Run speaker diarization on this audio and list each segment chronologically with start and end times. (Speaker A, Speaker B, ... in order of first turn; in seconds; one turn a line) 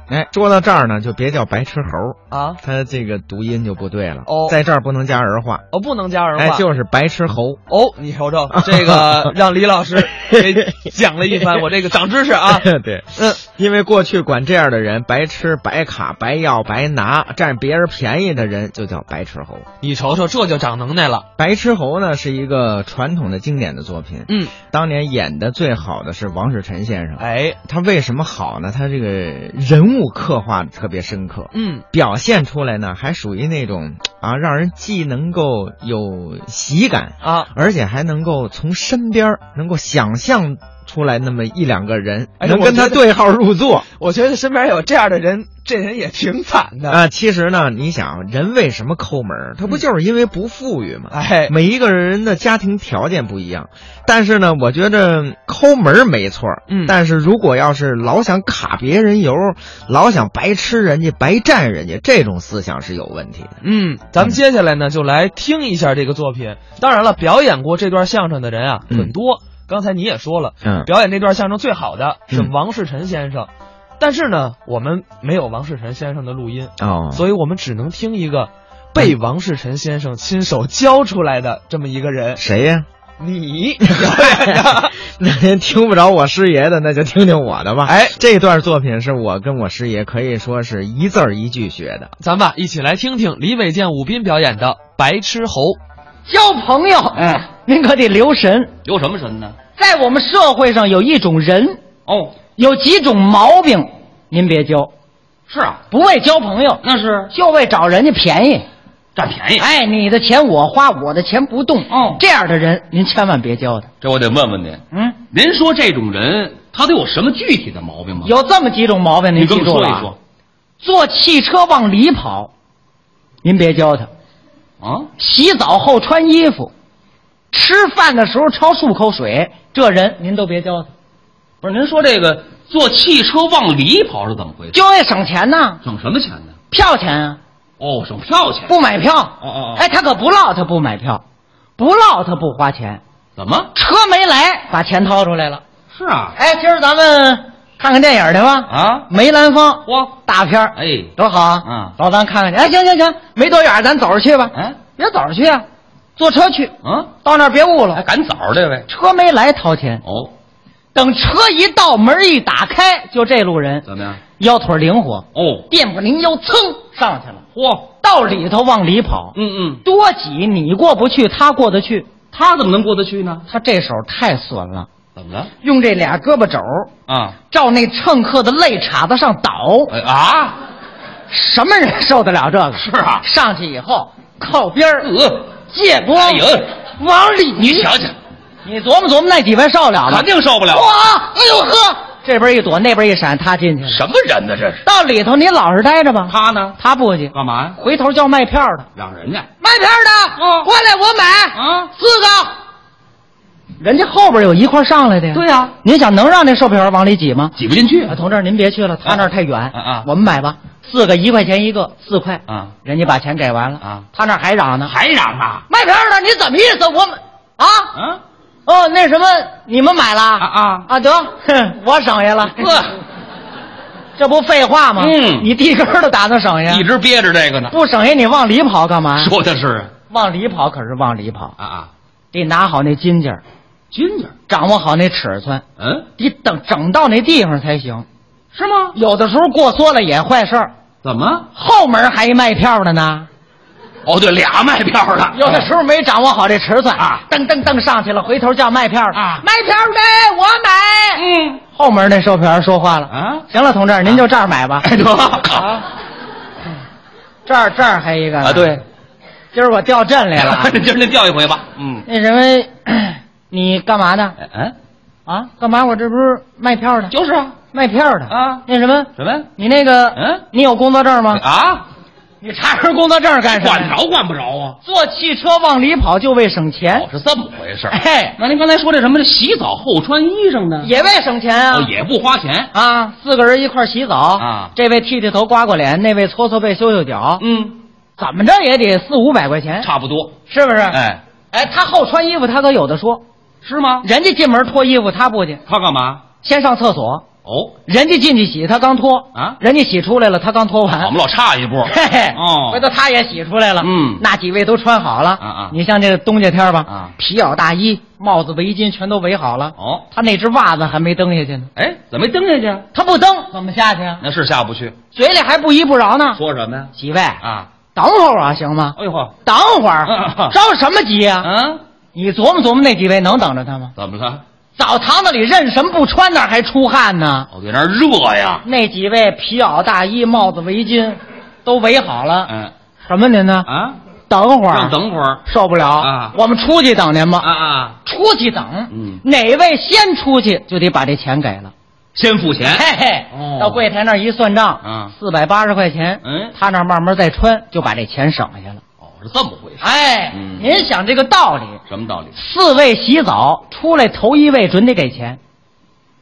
Speaker A: 0.1-5.7
Speaker B: 2.3-2.6
Speaker B: 4.3-4.6
Speaker B: 5.7-6.7
Speaker A: 6.4-7.6
Speaker B: 7.7-13.4
Speaker A: 8.5-9.3
Speaker A: 11.3-11.6
Speaker A: 12.4-19.7
Speaker B: 19.8-21.3
Speaker A: 21.4-43.9
Speaker B: 24.3-24.5
Speaker B: 27.2-27.6
Speaker B: 31.5-31.8
Speaker B: 37.2-37.5
Speaker B: 42.4-43.0
Speaker B: 44.0-47.0
Speaker A: 46.9-63.6
Speaker B: 51.1-51.5
Speaker B: 56.7-57.0
Speaker B: 63.6-82.4
Speaker A: 70.6-70.9
Speaker A: 76.8-77.3
Speaker A: 82.4-82.9
Speaker B: 83.2-85.0
Speaker A: 83.9-92.1
Speaker B: 87.9-88.2
Speaker B: 92.2-95.8
Speaker C: 96.3-98.7
Speaker D: 97.1-97.5
Speaker D: 98.8-99.6
Speaker C: 99.8-101.8
Speaker D: 102.1-102.4
Speaker C: 102.6-104.9
Speaker D: 105.5-105.8
Speaker C: 105.9-108.7
Speaker D: 106.8-107.3
Speaker D: 109.2-109.7
Speaker C: 109.6-113.9
Speaker D: 111.9-112.2
Speaker D: 114.0-118.3
Speaker C: 118.2-120.1
Speaker D: 119.3-120.2
Speaker C: 120.8-122.5
Speaker C: 123.4-124.1
Speaker D: 124.8-125.1
Speaker C: 125.2-126.7
Speaker C: 127.5-130.9
Speaker D: 131.6-134.8
Speaker C: 134.7-135.8
Speaker D: 135.8-136.5
Speaker C: 136.7-137.4
Speaker D: 137.8-138.8
Speaker C: 138.7-141.2
Speaker D: 139.4-139.8
Speaker C: 141.8-143.0
Speaker D: 143.4-143.7
Speaker C: 143.8-145.6
Speaker D: 145.9-146.4
Speaker C: 146.4-155.7
Speaker D: 148.7-149.1
Speaker D: 149.9-150.1
Speaker D: 150.8-151.1
Speaker D: 151.6-151.9
Speaker D: 154.5-154.8
Speaker C: 156.2-158.1
Speaker D: 156.8-157.1
Speaker D: 158.0-158.9
Speaker C: 158.9-160.0
Speaker D: 160.0-160.3
Speaker C: 160.9-163.9
Speaker D: 163.8-164.2
Speaker C: 164.4-167.4
Speaker D: 165.3-165.7
Speaker D: 167.6-167.9
Speaker C: 168.0-172.1
Speaker D: 169.3-169.8
Speaker D: 172.3-173.4
Speaker C: 173.5-174.9
Speaker D: 175.2-175.5
Speaker C: 175.6-176.9
Speaker D: 177.1-177.4
Speaker C: 177.5-179.9
Speaker D: 179.9-180.6
Speaker C: 181.3-185.1
Speaker D: 182.8-183.3
Speaker D: 185.0-186.7
Speaker C: 185.7-187.9
Speaker D: 187.6-188.2
Speaker C: 188.7-194.0
Speaker D: 190.1-190.9
Speaker D: 193.8-194.8
Speaker C: 194.9-198.9
Speaker D: 196.3-196.8
Speaker D: 197.3-197.8
Speaker D: 198.9-199.5
Speaker C: 199.6-202.5
Speaker D: 200.4-200.7
Speaker D: 201.5-201.9
Speaker C: 203.8-207.5
Speaker D: 205.3-205.7
Speaker D: 207.6-208.2
Speaker C: 208.1-214.9
Speaker D: 209.0-210.1
Speaker D: 212.5-212.8
Speaker D: 213.8-214.1
Speaker D: 214.9-215.7
Speaker C: 215.7-217.9
Speaker D: 217.9-218.2
Speaker C: 218.7-222.7
Speaker D: 220.4-220.9
Speaker D: 222.5-223.0
Speaker C: 224.2-226.9
Speaker D: 225.0-225.5
Speaker D: 226.7-227.8
Speaker C: 227.7-229.3
Speaker D: 229.2-229.9
Speaker C: 230.1-231.6
Speaker D: 231.6-231.9
Speaker C: 232.3-233.4
Speaker D: 233.9-234.3
Speaker C: 234.5-235.6
Speaker D: 235.8-236.1
Speaker C: 236.2-238.1
Speaker D: 238.5-238.9
Speaker C: 238.9-240.7
Speaker D: 241.0-241.5
Speaker C: 241.6-243.3
Speaker D: 244.1-245.7
Speaker C: 245.3-254.9
Speaker D: 247.0-247.2
Speaker D: 249.1-249.4
Speaker D: 251.2-251.6
Speaker D: 253.1-253.4
Speaker D: 254.8-255.9
Speaker C: 257.5-258.8
Speaker D: 258.4-258.8
Speaker C: 259.5-260.8
Speaker D: 260.4-262.1
Speaker C: 262.1-264.4
Speaker D: 264.4-264.8
Speaker C: 265.3-267.1
Speaker D: 267.1-267.6
Speaker C: 267.7-271.4
Speaker D: 268.3-268.6
Speaker D: 269.2-269.5
Speaker D: 270.1-270.5
Speaker D: 271.3-271.9
Speaker C: 272.4-274.0
Speaker D: 273.5-274.8
Speaker C: 274.9-277.1
Speaker D: 276.9-280.9
Speaker C: 277.9-278.4
Speaker C: 280.8-281.9
Speaker D: 281.7-282.7
Speaker C: 282.7-287.4
Speaker D: 284.4-284.7
Speaker D: 287.4-287.8
Speaker C: 288.2-289.9
Speaker D: 289.8-290.4
Speaker C: 290.5-291.0
Speaker D: 290.9-291.2
Speaker C: 291.5-293.2
Speaker D: 293.6-294.1
Speaker C: 294.0-295.6
Speaker D: 295.7-296.2
Speaker C: 296.4-297.2
Speaker D: 297.4-297.7
Speaker C: 297.9-301.1
Speaker D: 299.3-299.6
Speaker D: 301.0-302.9
Speaker C: 301.9-311.7
Speaker D: 303.8-304.2
Speaker D: 305.4-305.8
Speaker D: 306.9-307.1
Speaker D: 309.8-310.1
Speaker D: 311.8-312.9
Speaker C: 312.9-314.2
Speaker D: 314.2-315.0
Speaker C: 315.1-316.4
Speaker D: 316.4-317.7
Speaker C: 316.9-317.4
Speaker C: 317.9-321.5
Speaker D: 318.9-319.3
Speaker D: 320.1-320.6
Speaker D: 321.4-321.8
Speaker C: 322.1-323.9
Speaker D: 324.0-324.4
Speaker C: 324.8-327.5
Speaker D: 327.5-328.6
Speaker C: 328.6-332.5
Speaker D: 332.5-332.7
Speaker C: 333.1-333.7
Speaker D: 333.7-334.0
Speaker C: 334.3-337.5
Speaker D: 334.7-335.4
Speaker D: 336.0-336.4
Speaker D: 337.4-338.0
Speaker C: 338.1-341.7
Speaker D: 338.9-339.2
Speaker D: 342.1-343.8
Speaker C: 342.6-348.8
Speaker D: 344.8-345.1
Speaker D: 346.2-346.6
Speaker D: 349.0-350.7
Speaker C: 349.8-351.8
Speaker D: 351.9-352.4
Speaker C: 352.4-355.4